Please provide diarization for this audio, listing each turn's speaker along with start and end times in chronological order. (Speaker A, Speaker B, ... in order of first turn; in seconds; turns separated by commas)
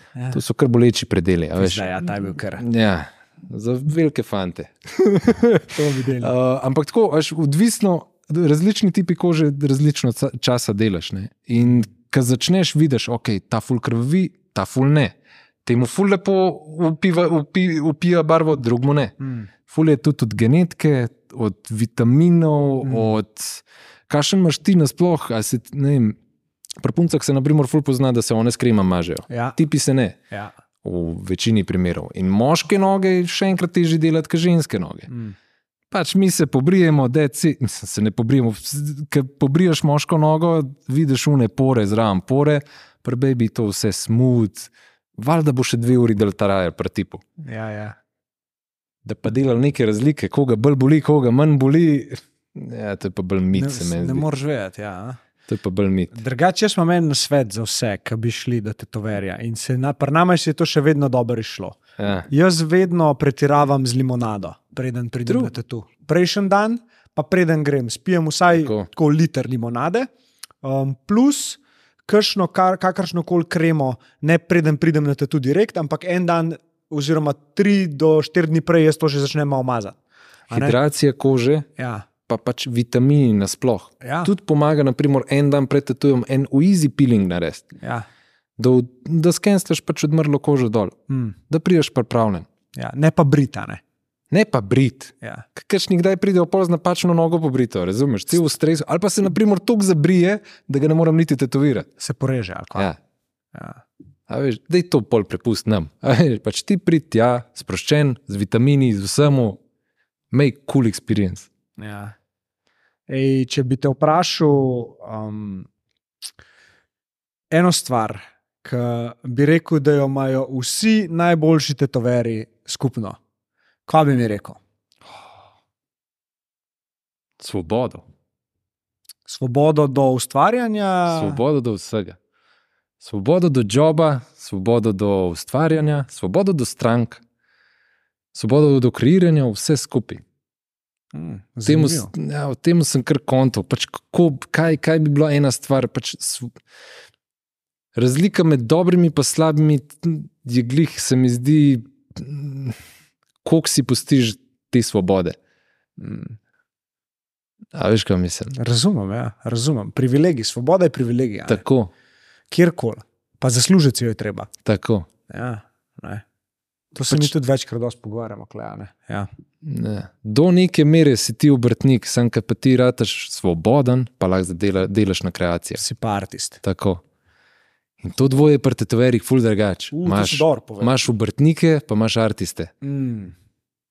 Speaker A: 0.1-0.4, Speaker B: 0.3-2.0, Speaker A: 1.6-2.6, Speaker B: 2.6-19.1, Speaker A: 5.8-6.3, Speaker A: 19.2-19.5, Speaker B: 19.7-26.1, Speaker A: 22.8-23.1, Speaker B: 26.8-30.2, Speaker A: 29.3-29.6, Speaker B: 30.8-35.1, Speaker A: 35.1-35.3, Speaker B: 35.9-47.2, Speaker A: 47.4-48.0, Speaker B: 49.0-54.2, Speaker A: 53.5-55.2, Speaker B: 55.5-56.2, Speaker A: 56.1-61.8, Speaker B: 62.0-62.3, Speaker A: 62.3-70.1, Speaker B: 65.3-65.5, Speaker B: 68.5-68.9, Speaker A: 70.6-80.0, Speaker A: 80.5-80.8, Speaker B: 80.5-81.7, Speaker A: 81.8-82.0, Speaker B: 82.3-87.7, Speaker A: 84.0-84.3, Speaker A: 87.8-88.0, Speaker B: 88.6-91.0, Speaker A: 91.1-91.4, Speaker B: 91.5-92.5, Speaker A: 92.7-93.8, Speaker B: 94.3-101.9, Speaker A: 102.0-102.9, Speaker A: 103.5-103.8, Speaker B: 104.3-109.6, Speaker B: 110.3-111.5, Speaker A: 111.8-112.1, Speaker A: 113.1-115.7, Speaker A: 117.5-123.2, Speaker A: 123.9-124.6, Speaker B: 127.4-128.0, Speaker A: 129.3-131.4, Speaker B: 131.1-132.2, Speaker B: 133.0-137.2, Speaker B: 138.3-140.2, Speaker A: 141.1-142.1, Speaker B: 141.7-146.5, Speaker B: 147.9-152.8, Speaker B: 153.4-155.4, Speaker A: 156.0-156.4, Speaker B: 157.7-158.5, Speaker A: 158.5-161.6, Speaker B: 161.4-161.9, Speaker A: 162.5-164.5, Speaker B: 164.6-165.1, Speaker A: 165.3-166.2, Speaker A: 166.9-169.3, Speaker B: 169.6-175.8, Speaker A: 175.8-176.6, Speaker B: 176.6-177.0, Speaker B: 178.0-182.7, Speaker A: 179.9-180.9, Speaker A: 182.8-183.3